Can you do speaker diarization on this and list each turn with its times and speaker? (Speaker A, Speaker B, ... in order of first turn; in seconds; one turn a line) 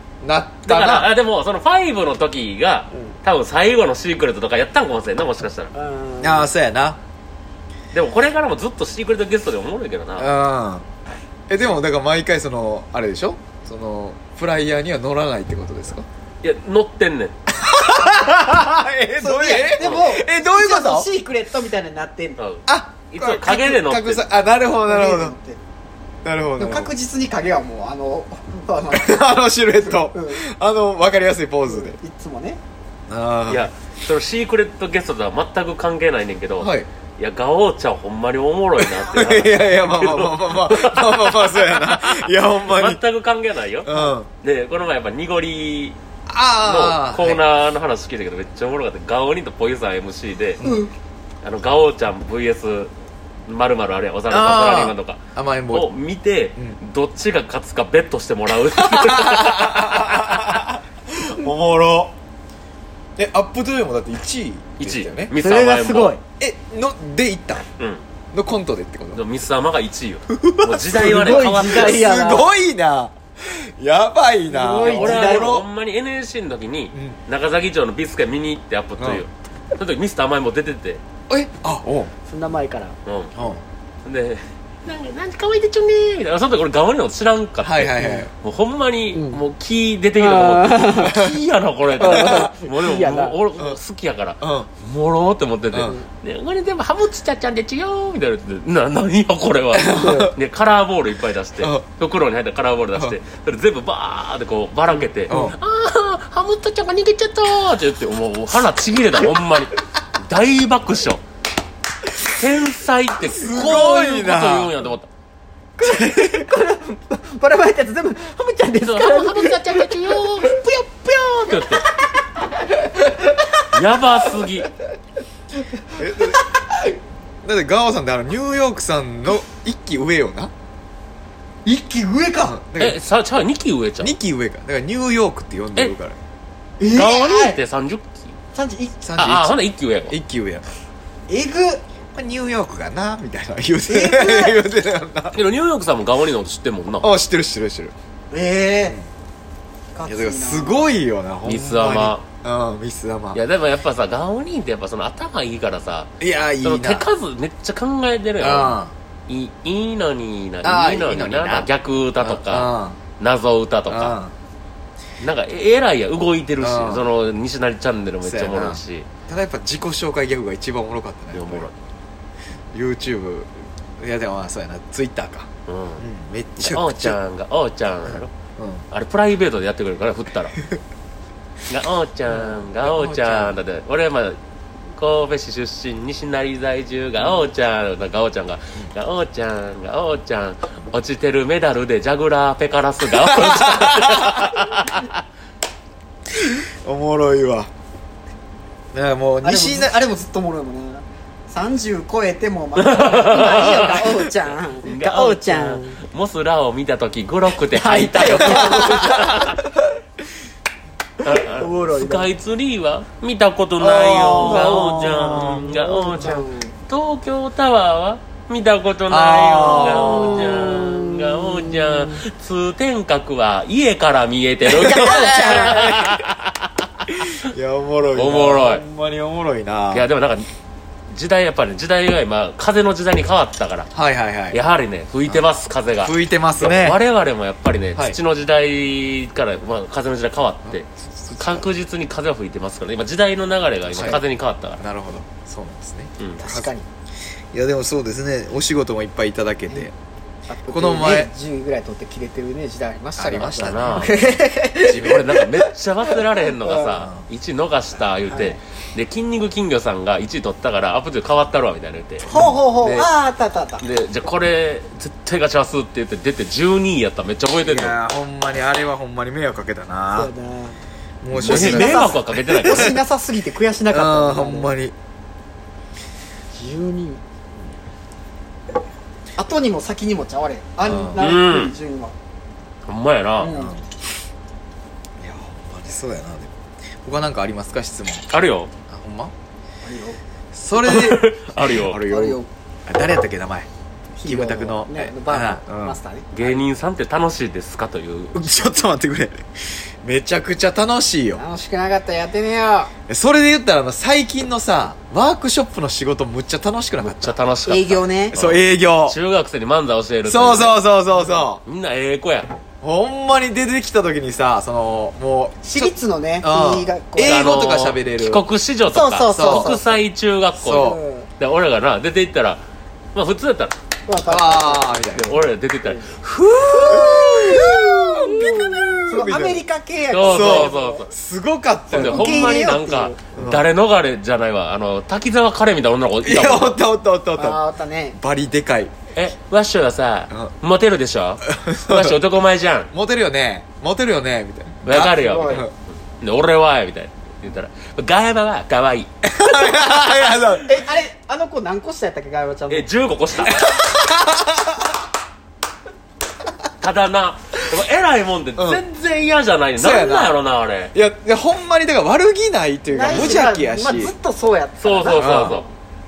Speaker A: 0.2-1.1
Speaker B: 0.7-5.7
Speaker C: 5.7-6.5
Speaker A: 6.2-7.0
Speaker B: 7.9-10.3
Speaker A: 10.2-10.8
Speaker A: 11.5-16.1
Speaker B: 16.4-17.3
Speaker A: 17.5-21.1
Speaker C: 19.2-22.4
Speaker B: 19.8-20.1
Speaker B: 22.4-24.3
Speaker A: 22.7-25.4
Speaker C: 24.9-25.6
Speaker A: 26.2-26.9
Speaker C: 26.6-29.4
Speaker A: 28.9-32.0
Speaker C: 30.1-30.4
Speaker C: 31.7-32.6
Speaker A: 33.1-33.7
Speaker B: 33.5-46.0
Speaker A: 36.6-36.9
Speaker A: 38.8-43.0
Speaker A: 43.9-44.3
Speaker A: 46.3-47.4
Speaker B: 46.6-50.6
Speaker C: 50.6-50.9
Speaker B: 51.4-52.9
Speaker B: 53.5-60.2
Speaker A: 54.3-55.9
Speaker A: 58.7-62.1
Speaker A: 63.2-65.3
Speaker B: 64.8-66.2
Speaker C: 65.4-66.2
Speaker A: 66.4-67.7
Speaker B: 67.8-68.0
Speaker A: 68.3-69.2
Speaker B: 69.1-72.1
Speaker A: 70.3-75.7
Speaker C: 70.9-72.5
Speaker C: 74.5-75.6
Speaker B: 74.8-81.0
Speaker A: 79.0-79.2
Speaker A: 81.3-82.1
Speaker C: 82.3-83.0
Speaker B: 83.1-83.3
Speaker A: 83.3-83.6
Speaker B: 84.0-111.2
Speaker A: 87.6-88.3
Speaker C: 89.1-89.4
Speaker C: 90.2-91.2
Speaker A: 91.0-91.4
Speaker C: 92.0-93.4
Speaker A: 92.0-92.5
Speaker A: 94.4-94.7
Speaker A: 99.7-100.3
Speaker C: 100.0-100.3
Speaker A: 105.3-105.6
Speaker B: 112.3-115.1
Speaker A: 113.3-114.8
Speaker C: 115.8-121.8
Speaker A: 115.8-116.5
Speaker B: 118.8-121.8
Speaker C: 122.6-123.7
Speaker B: 123.7-124.7
Speaker C: 125.8-127.0
Speaker A: 126.0-126.4
Speaker A: 127.4-130.5
Speaker C: 131.7-132.6
Speaker A: 132.5-133.0
Speaker B: 132.8-134.2
Speaker A: 134.0-136.2
Speaker C: 136.8-137.6
Speaker B: 136.9-138.4
Speaker C: 138.5-139.0
Speaker A: 139.0-139.6
Speaker B: 139.2-140.2
Speaker A: 140.1-140.6
Speaker C: 141.3-141.8
Speaker A: 142.1-145.4
Speaker C: 143.9-144.6
Speaker B: 145.3-147.1
Speaker A: 147.0-147.9
Speaker C: 148.3-149.0
Speaker C: 149.9-150.9
Speaker A: 150.1-153.4
Speaker B: 151.4-152.2
Speaker B: 153.3-156.1
Speaker A: 156.2-157.1
Speaker B: 156.6-164.2
Speaker A: 158.4-158.9
Speaker A: 160.6-161.7
Speaker A: 162.2-163.0
Speaker A: 163.9-164.3
Speaker B: 165.2-169.1
Speaker A: 166.6-167.1
Speaker A: 168.2-171.7
Speaker B: 171.3-171.7
Speaker A: 172.7-177.2
Speaker B: 175.7-176.0
Speaker B: 176.6-178.3
Speaker A: 178.1-178.8
Speaker B: 178.9-180.6
Speaker B: 181.7-184.4
Speaker A: 182.3-183.6
Speaker B: 184.9-195.2
Speaker A: 193.1-194.7
Speaker A: 196.3-197.7
Speaker A: 198.9-199.9
Speaker C: 199.4-206.0
Speaker B: 202.8-204.2
Speaker B: 204.8-209.6
Speaker C: 207.7-209.5
Speaker A: 208.2-209.9
Speaker B: 211.2-227.3
Speaker C: 211.3-212.3
Speaker A: 213.8-215.7
Speaker C: 214.4-216.7
Speaker A: 219.1-220.6
Speaker C: 219.7-222.2
Speaker C: 224.7-226.0
Speaker A: 224.7-226.3
Speaker A: 227.1-230.1
Speaker B: 228.2-228.8
Speaker B: 229.9-230.5
Speaker B: 231.1-233.9
Speaker A: 233.9-234.6
Speaker B: 234.5-244.8
Speaker A: 236.0-237.0
Speaker A: 240.7-241.7
Speaker A: 243.9-244.2
Speaker A: 244.8-246.7
Speaker C: 246.4-246.9
Speaker A: 247.5-249.9
Speaker C: 250.5-255.7
Speaker A: 250.7-251.3
Speaker A: 253.2-254.3
Speaker B: 253.5-254.2
Speaker A: 254.8-255.3
Speaker B: 254.9-263.1
Speaker C: 256.6-256.9
Speaker A: 256.9-257.2
Speaker C: 258.3-258.6
Speaker C: 262.3-263.8
Speaker A: 262.3-262.6
Speaker B: 263.8-268.0
Speaker A: 267.6-270.3
Speaker C: 270.1-270.8
Speaker A: 271.2-273.0
Speaker B: 271.4-273.0
Speaker C: 271.4-274.7
Speaker A: 273.9-274.9
Speaker C: 276.5-277.2
Speaker C: 279.4-282.1
Speaker A: 280.9-281.2
Speaker B: 281.2-281.7
Speaker B: 282.9-283.5
Speaker C: 283.4-283.8
Speaker A: 283.5-283.8
Speaker A: 285.2-286.5
Speaker A: 287.0-288.3
Speaker B: 288.3-288.7
Speaker A: 288.9-289.3
Speaker C: 289.8-290.2
Speaker A: 290.5-293.7
Speaker B: 290.8-292.0
Speaker C: 292.1-292.5
Speaker C: 294.2-296.6
Speaker A: 294.2-296.0
Speaker B: 296.3-298.6
Speaker A: 298.3-299.4
Speaker A: 300.0-301.4
Speaker C: 301.4-302.9
Speaker A: 303.1-307.4
Speaker B: 307.0-310.8
Speaker C: 307.7-308.4
Speaker A: 308.3-309.2
Speaker A: 310.2-311.6
Speaker B: 311.6-312.5
Speaker A: 312.8-318.4
Speaker C: 315.6-317.6
Speaker B: 317.2-322.6
Speaker C: 318.9-319.9
Speaker A: 319.3-319.8
Speaker A: 320.6-321.0
Speaker C: 320.7-321.3
Speaker B: 323.1-323.8
Speaker C: 324.1-325.0
Speaker A: 324.2-325.4
Speaker B: 325.1-329.0
Speaker C: 325.9-331.0
Speaker A: 326.9-329.6
Speaker B: 330.1-331.1
Speaker A: 330.2-332.6
Speaker B: 331.9-336.8
Speaker C: 331.9-333.2
Speaker A: 333.4-333.6
Speaker A: 336.2-337.6
Speaker C: 337.4-338.2
Speaker A: 338.1-338.9
Speaker B: 339.1-342.9
Speaker A: 341.5-342.2
Speaker A: 342.9-345.7
Speaker B: 344.9-349.1
Speaker C: 344.9-345.6
Speaker A: 349.2-350.8
Speaker C: 350.5-352.9
Speaker B: 352.7-353.7
Speaker A: 353.4-355.0
Speaker B: 356.8-360.9
Speaker A: 358.6-358.8
Speaker A: 359.8-360.4
Speaker A: 360.9-364.1
Speaker C: 362.9-365.7
Speaker B: 363.1-363.4
Speaker B: 364.8-365.7
Speaker A: 365.1-365.6